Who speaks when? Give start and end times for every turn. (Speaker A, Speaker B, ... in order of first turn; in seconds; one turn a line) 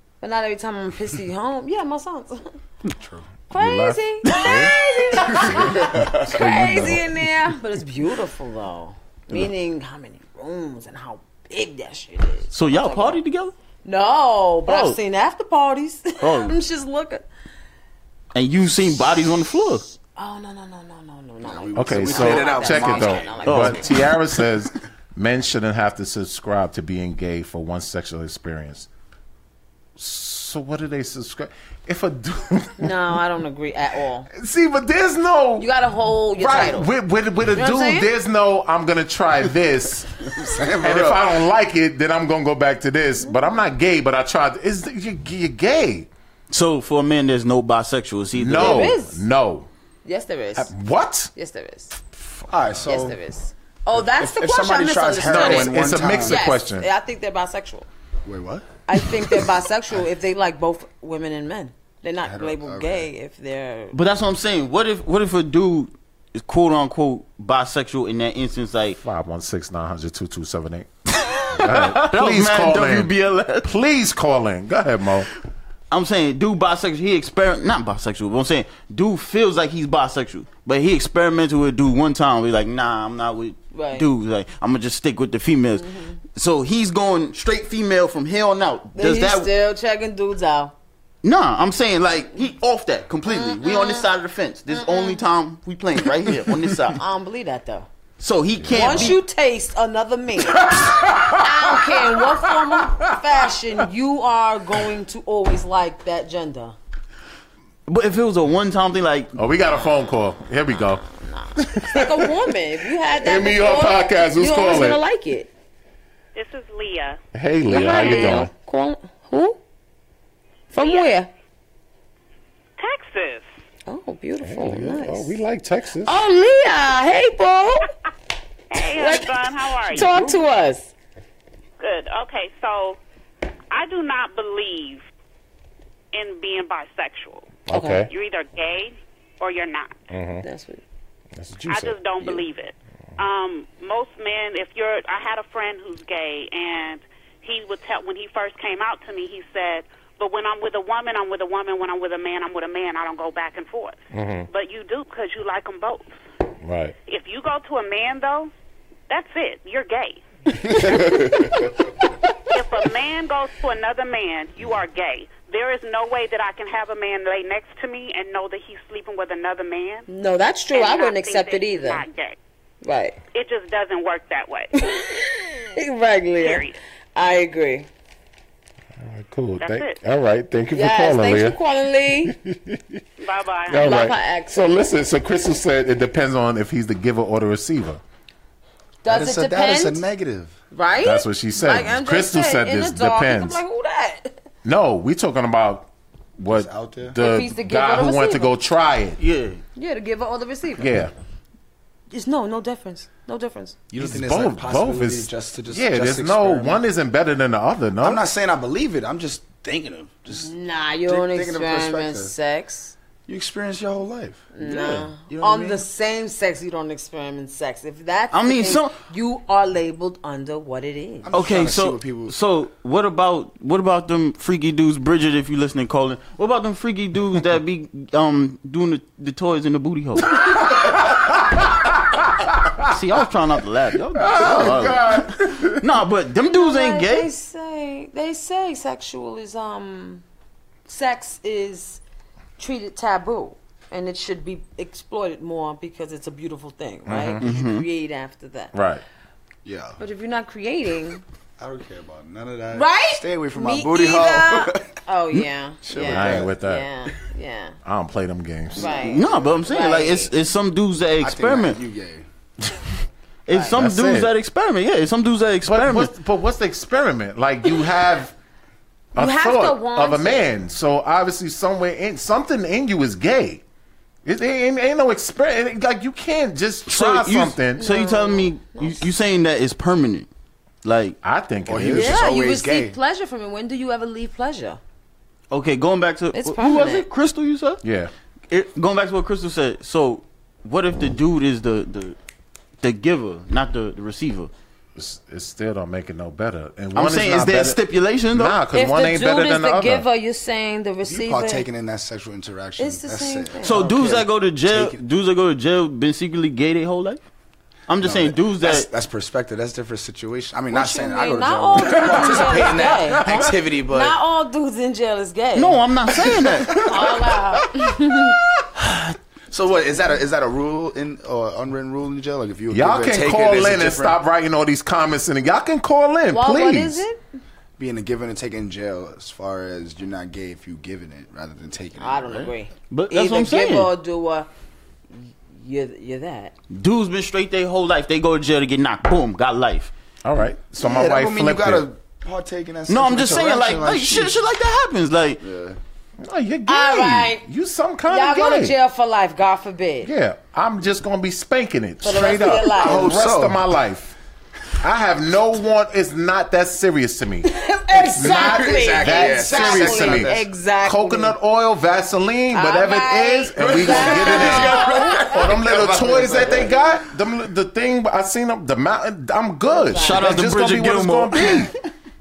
Speaker A: 0.2-2.5
Speaker B: 2.9-3.3
Speaker A: 3.5-13.2
Speaker C: 3.5-7.1
Speaker D: 4.3-4.7
Speaker B: 5.5-6.4
Speaker D: 12.5-13.5
Speaker A: 13.8-17.2
Speaker D: 14.7-15.0
Speaker D: 16.2-16.6
Speaker D: 18.3-19.8
Speaker A: 20.1-23.9
Speaker B: 21.4-23.8
Speaker C: 21.7-28.9
Speaker D: 23.4-23.8
Speaker C: 29.9-33.0
Speaker A: 32.8-34.3
Speaker C: 34.3-35.7
Speaker A: 35.6-36.9
Speaker C: 36.4-46.1
Speaker A: 37.5-38.1
Speaker B: 40.4-41.3
Speaker D: 46.5-48.9
Speaker C: 48.3-49.7
Speaker A: 48.6-49.2
Speaker A: 50.0-50.7
Speaker C: 50.5-51.3
Speaker A: 51.3-52.0
Speaker C: 52.1-52.5
Speaker B: 52.5-53.2
Speaker A: 52.9-57.9
Speaker B: 54.0-56.4
Speaker C: 55.3-56.9
Speaker B: 58.2-58.7
Speaker A: 58.9-64.0
Speaker B: 62.2-63.1
Speaker D: 63.9-69.0
Speaker C: 69.0-70.9
Speaker D: 71.2-73.7
Speaker C: 71.5-75.3
Speaker D: 75.9-89.5
Speaker A: 83.7-84.0
Speaker A: 85.8-86.2
Speaker A: 89.0-90.7
Speaker D: 91.2-97.0
Speaker A: 93.3-94.0
Speaker A: 94.7-95.2
Speaker A: 96.9-97.9
Speaker D: 98.2-99.2
Speaker C: 98.6-99.2
Speaker A: 98.7-106.8
Speaker C: 100.5-103.2
Speaker D: 107.9-109.3
Speaker C: 109.4-111.0
Speaker A: 110.7-115.5
Speaker C: 111.6-112.4
Speaker C: 113.0-115.0
Speaker E: 116.3-117.2
Speaker C: 117.3-118.5
Speaker A: 117.7-119.6
Speaker E: 118.0-118.4
Speaker A: 120.7-121.3
Speaker E: 120.8-121.1
Speaker E: 122.8-123.5
Speaker A: 123.9-125.3
Speaker C: 124.4-126.2
Speaker A: 126.0-127.9
Speaker E: 128.7-130.2
Speaker A: 128.8-130.9
Speaker D: 130.0-130.3
Speaker E: 131.8-133.0
Speaker E: 133.7-135.1
Speaker E: 136.1-140.0
Speaker C: 137.7-138.1
Speaker A: 137.7-138.1
Speaker C: 140.1-140.4
Speaker A: 140.4-140.8
Speaker C: 141.4-142.0
Speaker E: 141.7-156.2
Speaker C: 154.1-154.5
Speaker C: 156.6-156.9
Speaker E: 157.1-158.5
Speaker E: 159.1-160.2
Speaker C: 160.8-161.7
Speaker A: 160.9-161.2
Speaker E: 162.5-170.1
Speaker A: 170.1-172.0
Speaker E: 170.7-172.4
Speaker A: 172.8-173.2
Speaker E: 173.3-174.7
Speaker A: 174.7-177.9
Speaker E: 176.4-176.8
Speaker C: 179.0-181.6
Speaker E: 179.6-180.0
Speaker A: 180.7-182.3
Speaker C: 182.3-183.0
Speaker E: 183.2-184.0
Speaker C: 183.7-188.0
Speaker A: 183.8-184.7
Speaker A: 189.0-190.0
Speaker B: 189.1-190.6
Speaker A: 190.7-194.4
Speaker C: 191.0-193.6
Speaker C: 194.6-199.2
Speaker B: 196.5-197.2
Speaker A: 197.1-198.6
Speaker D: 199.2-199.6
Speaker A: 199.8-200.9
Speaker C: 200.8-201.1
Speaker A: 202.1-203.8
Speaker B: 203.9-206.8
Speaker C: 204.0-208.2
Speaker B: 208.0-210.5
Speaker A: 210.3-212.9
Speaker B: 211.1-212.3
Speaker B: 213.3-214.5
Speaker A: 214.5-221.3
Speaker D: 214.6-215.1
Speaker B: 215.3-215.8
Speaker D: 218.3-218.9
Speaker B: 221.2-222.3
Speaker D: 221.3-230.6
Speaker C: 230.3-233.0
Speaker D: 232.8-237.3
Speaker C: 234.2-235.8
Speaker A: 236.5-240.2
Speaker A: 240.9-242.0
Speaker A: 242.6-248.7
Speaker C: 247.1-247.4
Speaker D: 247.4-247.8
Speaker C: 248.7-249.0
Speaker B: 249.6-250.0
Speaker A: 250.0-251.2
Speaker B: 251.6-254.9
Speaker A: 252.7-257.8
Speaker B: 255.8-256.5
Speaker C: 256.0-256.9
Speaker C: 257.9-259.0
Speaker A: 258.8-260.3
Speaker B: 258.8-259.6
Speaker D: 259.0-261.8
Speaker B: 261.2-262.2
Speaker D: 263.5-266.1
Speaker C: 263.7-264.3
Speaker C: 265.6-268.4
Speaker C: 269.1-273.6
Speaker A: 269.1-270.5
Speaker C: 274.2-277.9
Speaker D: 276.9-280.3
Speaker A: 277.8-279.1
Speaker D: 280.8-281.2
Speaker C: 281.2-282.2
Speaker B: 281.7-282.9
Speaker A: 281.9-284.8
Speaker D: 285.5-287.8
Speaker A: 286.3-287.1
Speaker C: 287.8-288.1
Speaker D: 288.5-292.1
Speaker D: 292.8-294.5
Speaker C: 294.9-300.1
Speaker D: 296.9-298.6
Speaker A: 298.7-301.6
Speaker B: 301.0-305.0
Speaker A: 302.8-303.9
Speaker D: 303.6-307.2
Speaker D: 307.9-308.9
Speaker B: 308.0-314.1
Speaker A: 310.7-315.8
Speaker C: 312.1-313.4
Speaker D: 315.6-316.9
Speaker B: 316.7-317.1
Speaker A: 316.7-318.4
Speaker D: 318.8-319.1
Speaker B: 319.5-324.2
Speaker C: 322.7-327.0
Speaker A: 326.3-327.2
Speaker B: 327.8-332.4
Speaker A: 332.0-334.5
Speaker D: 332.3-333.9
Speaker A: 335.5-336.5
Speaker D: 336.7-339.9
Speaker C: 340.2-341.9
Speaker B: 340.8-344.4
Speaker D: 342.9-345.4
Speaker B: 345.4-345.8
Speaker C: 346.2-348.8
Speaker A: 346.7-347.4
Speaker A: 348.1-350.1
Speaker C: 350.0-354.1
Speaker A: 352.0-353.1
Speaker B: 352.7-353.6
Speaker C: 354.8-371.7
Speaker A: 357.4-361.4
Speaker B: 358.2-360.4
Speaker A: 362.5-365.4
Speaker B: 363.6-367.0
Speaker D: 364.3-365.0
Speaker A: 369.7-370.4
Speaker D: 369.9-371.7